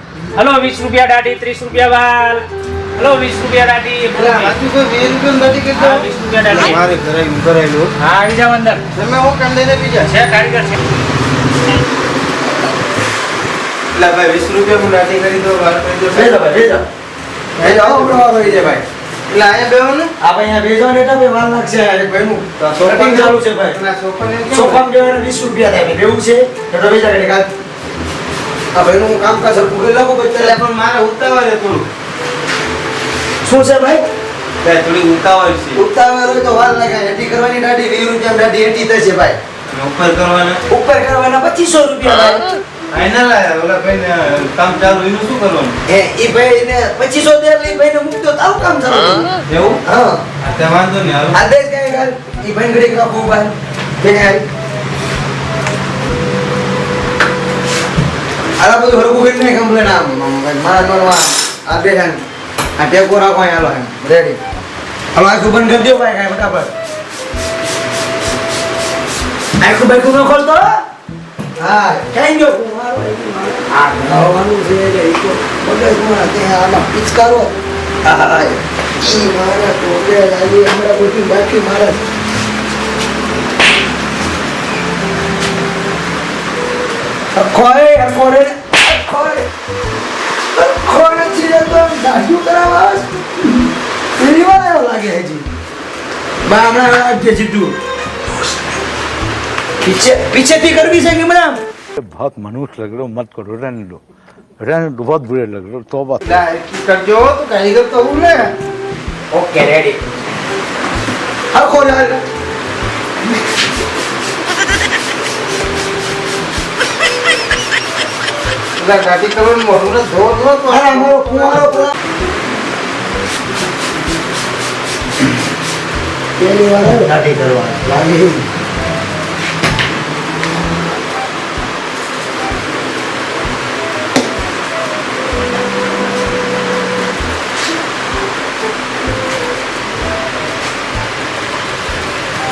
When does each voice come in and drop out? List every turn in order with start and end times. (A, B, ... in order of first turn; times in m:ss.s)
0:00.4-0:02.4 A
0:03.0-0:04.5 A
0:04.1-0:07.9 B
0:05.7-0:06.8 A
0:08.0-0:08.8 A
0:08.9-0:10.1 B
0:10.1-0:10.8 A
0:13.9-0:16.4 B
0:16.1-0:16.8 C
0:17.6-0:18.2 B
0:17.6-0:18.8 C
0:19.3-0:20.1 B
0:20.2-0:23.8 C
0:22.6-0:24.8 B
0:24.5-0:27.5 C
0:28.7-0:30.6 C
0:30.4-0:31.8 B
0:33.4-0:34.0 C
0:34.6-0:35.8 B
0:35.7-0:39.4 C
0:39.7-0:40.6 B
0:40.7-0:42.5 C
0:42.9-0:45.7 B
0:45.9-0:49.3 C
0:49.5-0:49.8 B
0:49.8-0:50.2 C
0:50.4-0:51.4 B
0:51.3-0:54.4 C
0:58.6-1:02.2 C
1:02.8-1:04.4 C
1:05.1-1:06.7 C
1:09.6-1:10.8 C
1:11.6-1:22.0 C
1:27.3-1:29.5 C
1:30.5-1:33.1 C
1:34.2-1:35.4 C
1:36.4-1:37.7 C
1:39.8-1:41.6 C
1:42.0-1:44.0 D
1:44.6-1:46.2 D
1:46.2-1:48.5 B
1:49.3-1:50.0 C
1:51.5-1:52.2 C
1:58.8-2:01.8 B
2:00.7-2:01.9 C
2:06.4-2:08.4 C